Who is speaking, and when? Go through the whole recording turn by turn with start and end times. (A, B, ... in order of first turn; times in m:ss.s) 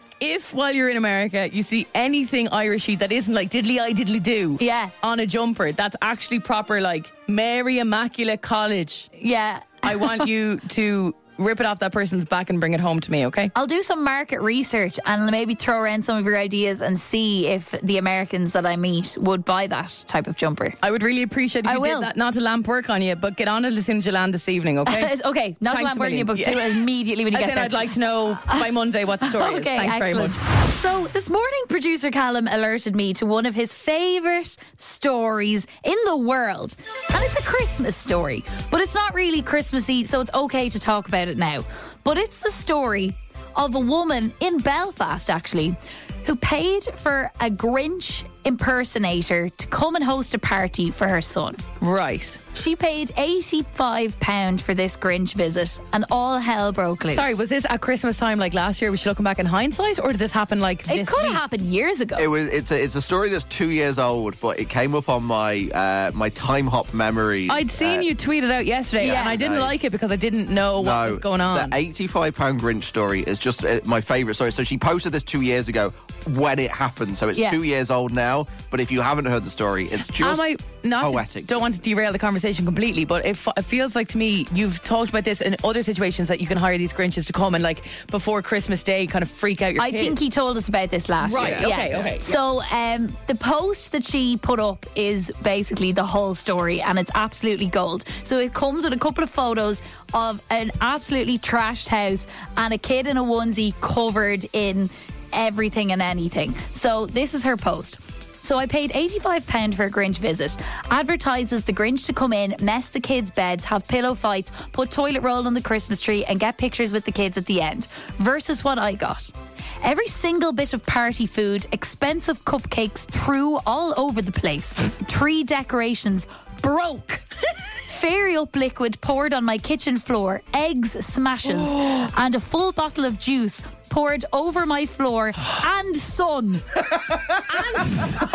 0:00.2-0:09.1 A
0:04.6-0:04.9 B
0:09.2-0:10.3 B
0:09.8-0:13.5 A
0:13.5-0:20.8 B
0:20.8-0:25.1 A
0:21.6-0:22.1 B
0:24.9-0:28.7 B
0:25.7-0:30.4 A
0:29.2-0:51.6 B
0:51.8-0:52.4 A
0:52.5-0:57.4 B
0:57.1-1:01.4 A
1:00.9-1:02.3 B
1:02.2-1:08.1 C
1:07.5-1:11.8 A
1:09.0-1:09.4 B
1:09.0-1:09.8 C
1:10.8-1:21.6 C
1:17.4-1:17.6 B
1:20.2-1:30.2 A
1:29.8-2:07.2 B
1:31.2-1:32.4 A
1:31.3-1:32.1 C
2:07.9-2:16.6 B
2:17.7-2:18.1 A